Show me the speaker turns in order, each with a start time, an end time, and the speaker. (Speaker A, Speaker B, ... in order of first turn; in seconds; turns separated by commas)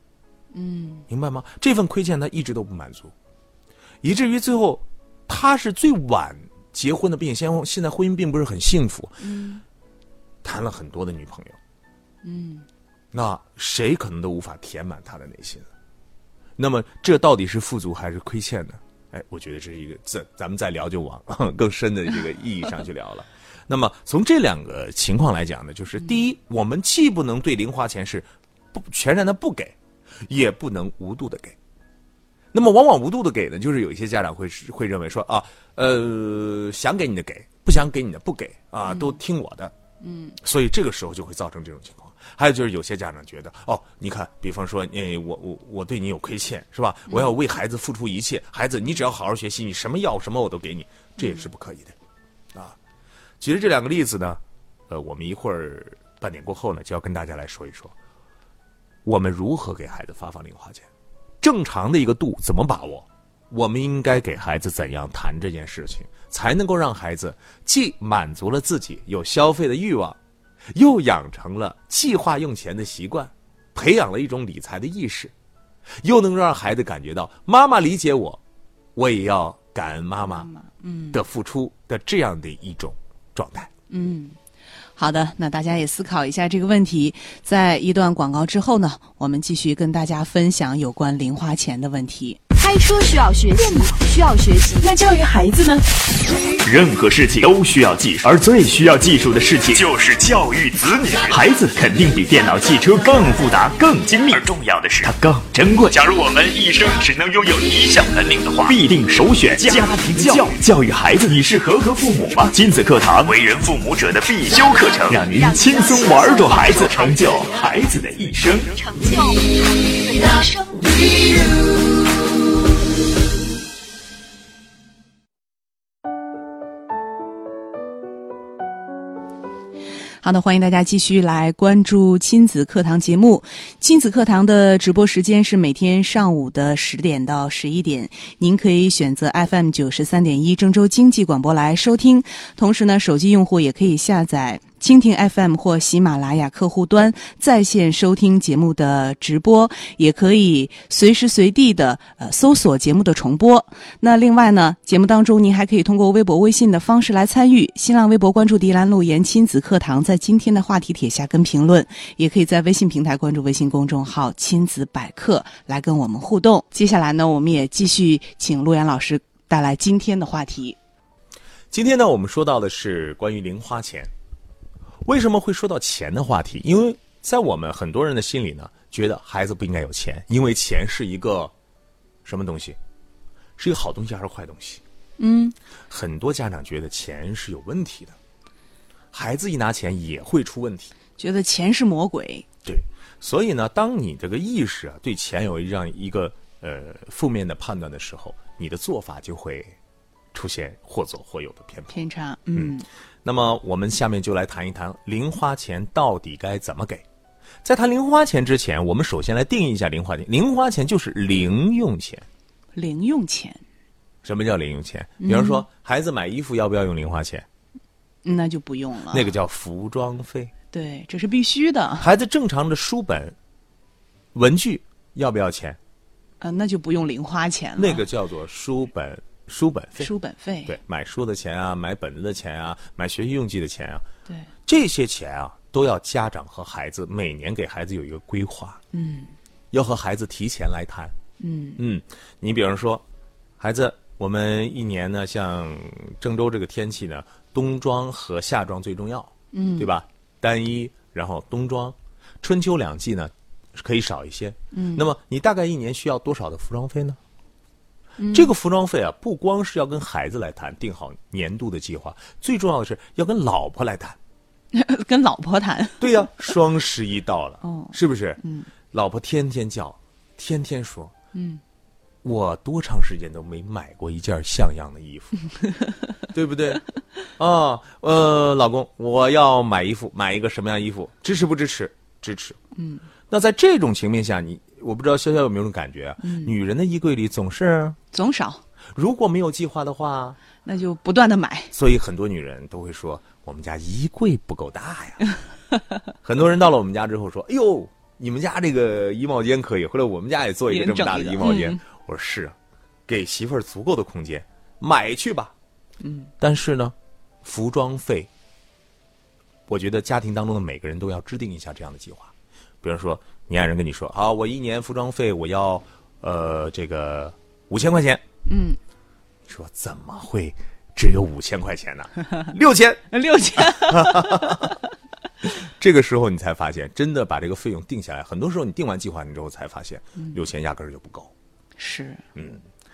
Speaker A: 0.5-1.1, Speaker B: 1.1-3.1, Speaker B: 4.0-9.2, Speaker A: 9.2-9.6, Speaker B: 10.4-11.6, Speaker A: 12.2-12.7, Speaker B: 13.1-15.7, Speaker B: 16.6-31.6, Speaker B: 32.5-39.7, Speaker A: 40.0-40.4, Speaker B: 40.4-52.0, Speaker A: 51.2-51.4, Speaker B: 53.4-58.0, Speaker B: 59.0-60.9, Speaker B: 61.4-70.2, Speaker B: 70.7-75.3, Speaker B: 76.0-78.4, Speaker B: 79.0-80.5, Speaker A: 80.3-81.2, Speaker B: 81.1-83.7, Speaker A: 83.9-84.4, Speaker A: 85.0-92.4, Speaker C: 92.5-95.9, Speaker D: 96.6-118.7, Speaker B: 109.6-110.5, Speaker C: 115.3-117.4, Speaker C: 118.7-121.7, Speaker A: 130.2-170.8, Speaker B: 171.7-174.1, Speaker B: 175.0-181.5, Speaker B: 182.2-182.8, Speaker B: 183.6-184.8, Speaker A: 185.2-185.6, Speaker B: 185.9-188.2, Speaker B: 189.1-190.9, Speaker A: 191.2-192.5, Speaker B: 192.6-199.8, Speaker B: 200.3-202.0, Speaker A: 201.9-202.9, Speaker B: 202.6-207.1, Speaker B: 207.6-212.3, Speaker A: 212.8-213.6, Speaker B: 214.2-217.5, Speaker A: 215.2-215.6, Speaker A: 218.2-219.3, Speaker B: 219.1-220.5, Speaker A: 220.7-222.1, Speaker B: 222.0-223.4, Speaker B: 224.3-225.8, Speaker A: 226.4-228.1, Speaker B: 227.8-230.1, Speaker A: 230.0-230.8, Speaker B: 230.7-234.1, Speaker B: 234.6-238.8, Speaker A: 238.9-239.3, Speaker B: 239.7-241.2, Speaker A: 241.4-241.8, Speaker B: 241.8-243.0, Speaker B: 243.6-257.2, Speaker A: 249.5-249.9, Speaker A: 254.7-255.1, Speaker A: 258.2-258.5, Speaker B: 258.3-264.2, Speaker A: 264.7-266.3, Speaker B: 266.0-268.4, Speaker A: 267.6-268.7, Speaker B: 268.9-271.1, Speaker A: 271.3-271.6, Speaker B: 272.2-275.4, Speaker B: 276.3-276.8, Speaker B: 277.4-282.6, Speaker A: 282.8-283.1, Speaker B: 283.3-288.0, Speaker A: 286.2-286.5, Speaker A: 288.1-288.6, Speaker B: 288.9-290.4, Speaker A: 290.6-291.7, Speaker B: 291.7-295.3, Speaker B: 296.2-302.6, Speaker A: 300.7-301.8, Speaker B: 303.1-305.5, Speaker A: 306.0-306.3, Speaker B: 306.4-308.3, Speaker B: 309.7-318.2, Speaker A: 318.5-318.8, Speaker B: 319.5-324.8, Speaker A: 323.1-324.7, Speaker B: 325.4-331.3, Speaker A: 331.8-332.2, Speaker B: 332.4-332.6